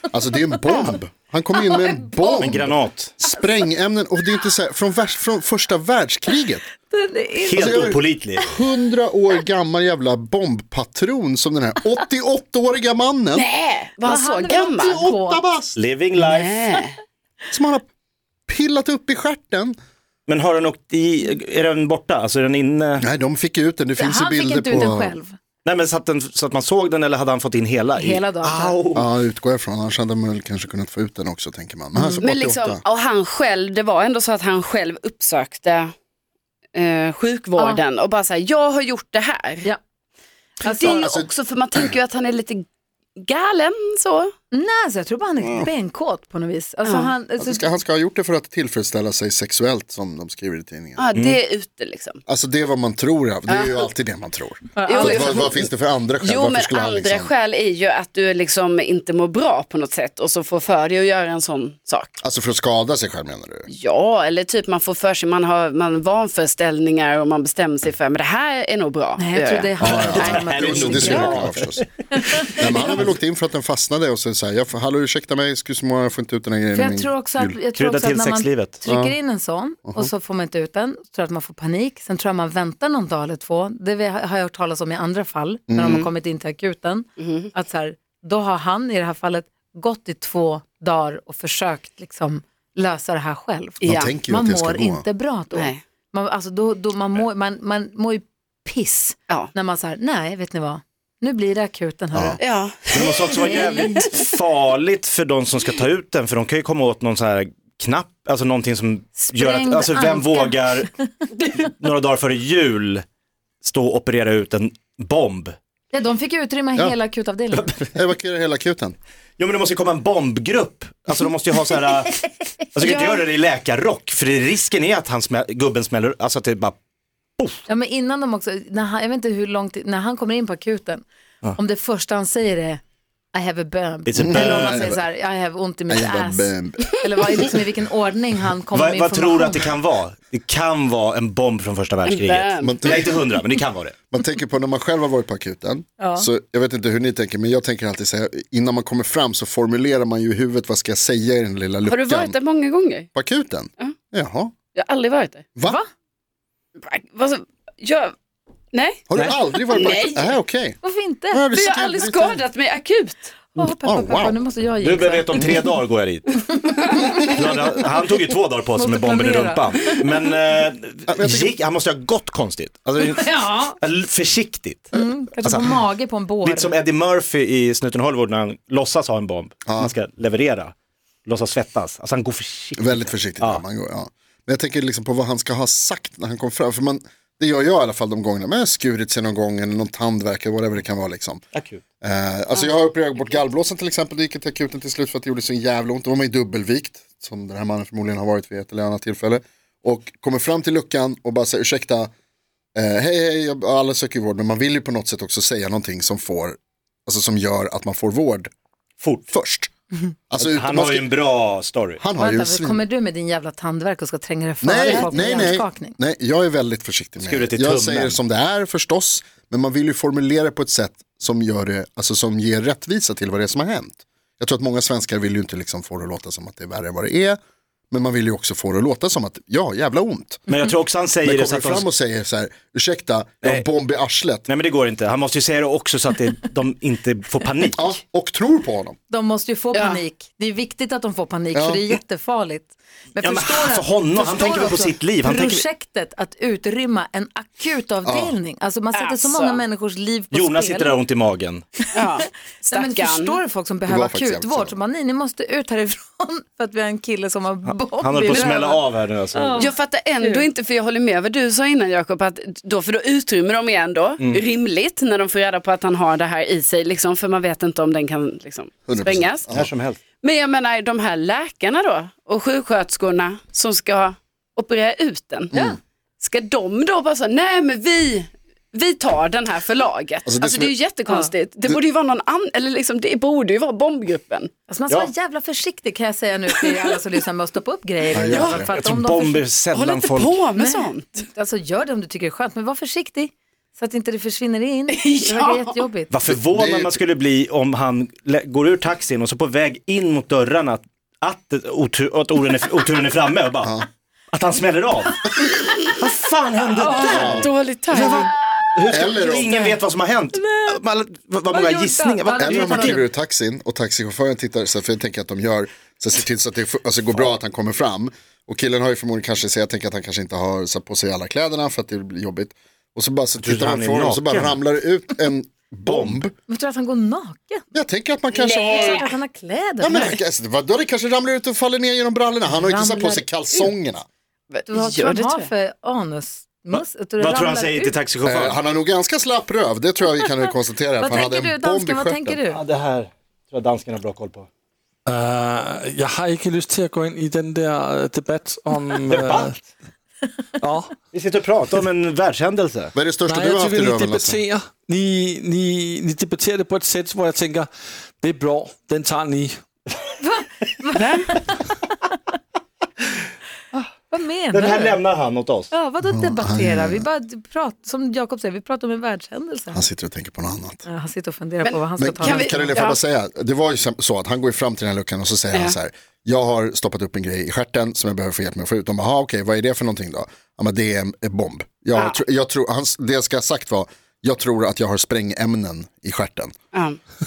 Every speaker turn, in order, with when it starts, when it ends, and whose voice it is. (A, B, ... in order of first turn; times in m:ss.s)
0:00.1-0:06.6 A
0:00.7-0:01.0 B
0:01.8-0:02.6 C
0:02.3-0:03.1 D
0:06.9-0:08.0 C
0:07.4-0:08.4 D
0:07.5-0:13.4 A
0:13.3-0:15.0 B
0:14.0-0:15.5 C
0:14.7-0:15.8 A
0:15.8-0:16.8 D
0:16.2-0:17.0 B
0:17.5-0:17.9 A
0:18.5-0:19.8 A
0:20.3-0:23.0 D
0:23.0-0:25.2 A
0:24.0-0:25.4 C
0:25.6-0:29.1 D
0:28.0-0:28.8 C
0:29.0-0:32.8 A
0:32.2-0:35.9 B
0:36.8-0:39.7 B
0:40.6-0:41.2 C
0:40.6-0:42.6 B
0:40.8-0:41.3 A
0:43.2-0:44.3 B
0:44.5-0:47.7 C
0:45.4-0:45.7 A
0:46.9-0:47.1 B
0:47.4-0:51.0 A
0:51.0-0:52.2 B
0:52.3-0:57.3 A
0:53.5-0:53.9 B
0:54.8-0:55.5 C
0:54.8-0:55.6 B
0:56.2-1:02.2 B
1:02.2-1:03.7 A
1:03.7-1:10.3 B
1:09.2-1:11.5 C
1:09.8-1:13.0 D
1:09.8-1:17.6 A
1:12.2-1:13.0 C
1:16.7-1:42.4 C
1:17.8-1:18.8 D
1:18.8-1:19.2 A
1:19.8-1:20.1 A
1:25.7-1:26.0 A
1:25.8-1:26.1 B
1:27.2-1:27.5 B
1:33.8-1:35.0 A
1:33.8-1:34.1 B
1:35.5-1:35.8 B
1:42.1-1:42.4 A
1:42.4-1:44.1 B
1:42.9-1:50.9 D
1:49.2-1:51.1 C
1:51.5-1:53.0 D
1:53.6-1:55.6 D
1:55.9-1:57.7 C
1:57.5-1:57.9 D
1:58.0-1:59.0 A
1:59.4-2:06.8 D
2:02.8-2:03.2 B
2:07.4-2:07.7 D
2:07.7-2:11.0 C
2:11.6-2:12.8 C
2:13.3-2:19.8 C
2:14.1-2:15.0 D
2:14.2-2:14.9 A
2:15.9-2:17.4 A
2:18.7-2:24.0 D
2:22.1-2:23.3 B
2:22.6-2:23.3 A
2:24.1-2:32.4 A
2:26.0-2:26.3 C
2:31.9-2:33.1 B
2:33.1-2:34.5 A
2:34.8-2:35.4 B
2:35.6-2:35.8 A
2:35.6-2:35.9 C
2:36.8-2:38.1 B
2:38.7-2:40.4 B
2:39.1-2:40.8 A
2:40.8-2:41.4 C
2:41.3-2:42.4 A
2:41.5-2:43.3 B
2:43.5-2:45.5 C
2:43.6-2:44.4 A
2:44.8-2:55.8 D
2:48.8-2:50.0 C
2:51.1-2:51.5 A
2:53.0-2:53.8 C
2:54.9-2:56.7 C
2:56.4-3:00.7 D
2:59.7-2:59.9 A
3:01.3-3:03.6 D
3:02.8-3:11.4 A
3:11.5-3:11.8 D
3:12.0-3:22.1 A
3:22.8-3:28.5 A
3:29.0-3:29.3 D
3:29.3-3:29.7 A
3:30.3-3:31.1 A
3:30.4-3:32.0 D
3:32.0-3:32.8 A
3:32.2-3:36.0 C
3:34.6-3:47.4 A
3:37.2-3:38.2 D
3:47.9-3:50.5 A
3:50.5-3:51.9 D
3:51.2-3:54.5 A
3:54.5-3:57.9 D
3:57.8-3:59.0 A
3:59.1-4:11.0 C
3:59.7-4:00.0 B
4:01.5-4:01.9 A
4:03.2-4:05.6 D
4:08.0-4:08.4 A
4:08.9-4:09.6 B
4:10.3-4:11.7 D
4:11.9-4:13.4 B
4:12.7-4:20.5 C
4:13.9-4:14.8 A
4:17.7-4:19.7 D
4:19.6-4:29.5 B
4:28.9-4:29.7 A
4:29.5-4:30.0 D
4:30.2-4:35.6 B
4:36.2-4:44.5 B
4:40.3-4:40.7 A
4:44.7-4:49.4 C
4:48.1-4:48.7 A
4:48.2-4:48.6 B
4:48.4-4:50.4 D
4:49.7-4:51.2 B
4:50.6-4:56.1 C
4:54.9-4:55.8 B
4:56.1-5:03.8 D
4:56.4-4:57.0 A
5:04.3-5:05.3 D
5:06.0-5:13.0 D
5:06.8-5:08.4 B
5:06.9-5:07.3 C
5:07.1-5:07.5 A
5:08.9-5:09.6 A
5:10.4-5:10.7 C
5:11.5-5:13.1 C
5:12.4-5:26.3 A
5:23.4-5:24.6 D
5:25.8-5:26.2 D
5:26.5-5:27.6 C
5:27.7-5:29.0 A
5:28.3-5:29.1 B
5:28.5-5:30.2 C
5:29.8-5:34.0 A
5:32.5-5:33.7 C
5:34.5-5:35.5 B
5:34.7-5:38.0 C
5:36.7-5:38.6 D
5:38.2-5:42.4 A
5:41.0-5:42.6 C
5:42.5-5:44.5 D
5:45.1-5:49.6 E
5:49.0-5:49.6 D
5:50.6-5:50.9 E
5:51.1-5:52.9 D
5:53.0-5:54.4 A
5:53.3-5:57.7 E
5:58.2-5:59.5 E
6:00.2-6:01.6 C
6:01.0-6:01.4 B
6:04.1-6:05.0 C
6:04.5-6:05.7 D
6:05.7-6:09.8 C
6:06.1-6:07.0 A
6:09.7-6:10.9 A
6:10.8-6:12.6 C
6:11.6-6:13.0 B
6:12.0-6:26.5 A
6:26.7-6:27.0 B